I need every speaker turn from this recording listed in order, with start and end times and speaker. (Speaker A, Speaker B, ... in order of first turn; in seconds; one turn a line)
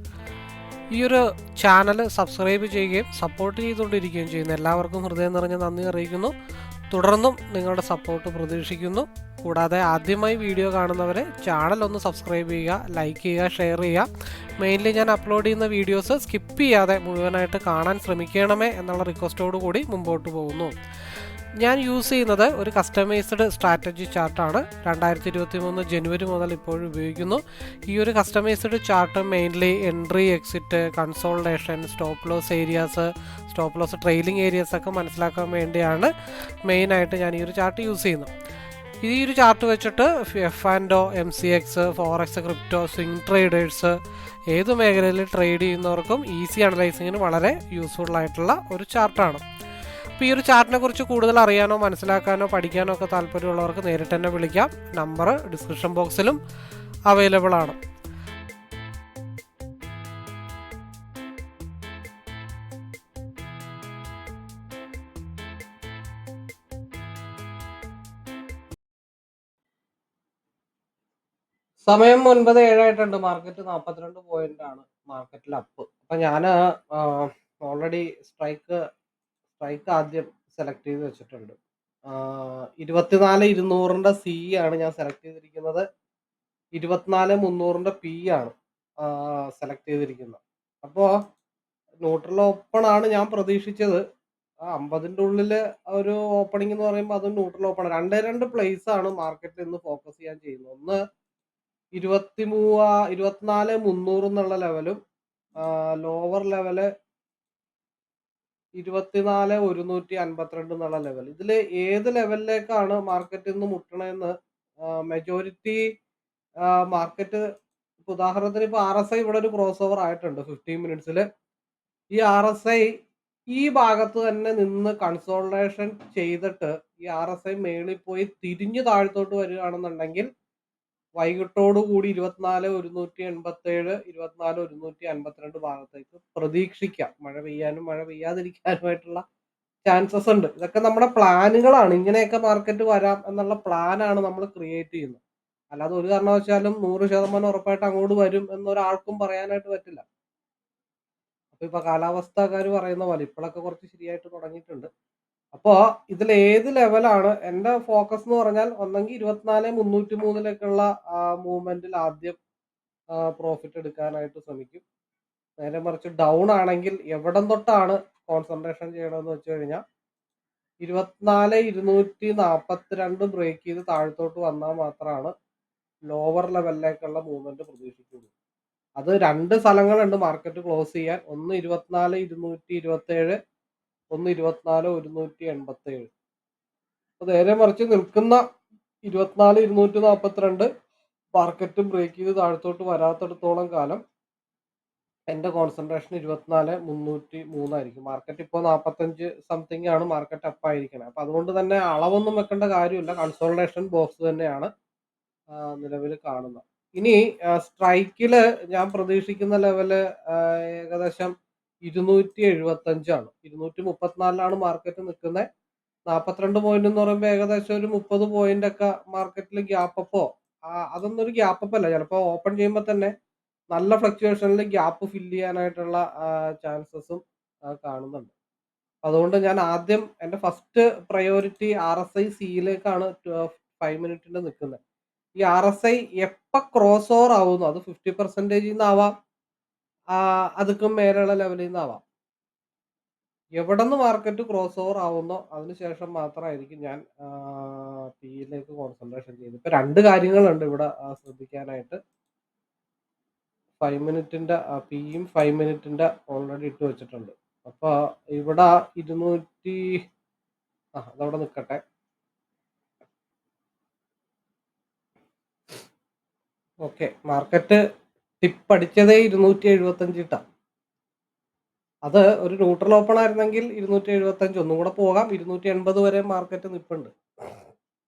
Speaker A: 0.9-6.3
Speaker A: 6.9-20.8
Speaker A: 21.6-36.1
Speaker A: 36.7-38.3
Speaker A: 39.0-44.0
Speaker A: 44.5-49.4
Speaker A: 50.2-56.4
Speaker A: 57.1-57.8
Speaker A: 71.8-78.8
Speaker A: 79.5-81.5
Speaker A: 82.1-85.8
Speaker A: 86.8-91.1
Speaker A: 92.0-94.0
Speaker A: 94.7-101.0
Speaker A: 102.0-105.0
Speaker A: 105.6-106.9
Speaker A: 108.8-114.3
Speaker A: 114.8-115.8
Speaker A: 116.8-117.4
Speaker A: 118.0-121.2
Speaker A: 122.2-122.9
Speaker A: 123.5-130.3
Speaker A: 131.2-139.2
Speaker A: 139.8-145.2
Speaker A: 145.7-150.0
Speaker A: 151.5-154.9
Speaker A: 155.5-162.4
Speaker A: 163.2-164.8
Speaker A: 165.6-169.8
Speaker A: 170.8-175.3
Speaker A: 176.1-178.3
Speaker A: 179.0-183.4
Speaker A: 184.1-186.1
Speaker A: 187.2-188.4
Speaker A: 189.1-190.7
Speaker A: 191.3-194.0
Speaker A: 195.3-204.7
Speaker A: 205.6-211.3
Speaker A: 211.8-215.4
Speaker A: 216.1-223.1
Speaker A: 223.7-228.3
Speaker A: 229.0-234.8
Speaker A: 235.4-239.1
Speaker A: 240.1-242.0
Speaker A: 243.6-252.0
Speaker A: 253.8-259.8
Speaker A: 261.0-261.8
Speaker A: 266.8-267.8
Speaker A: 268.4-270.4
Speaker A: 272.1-277.1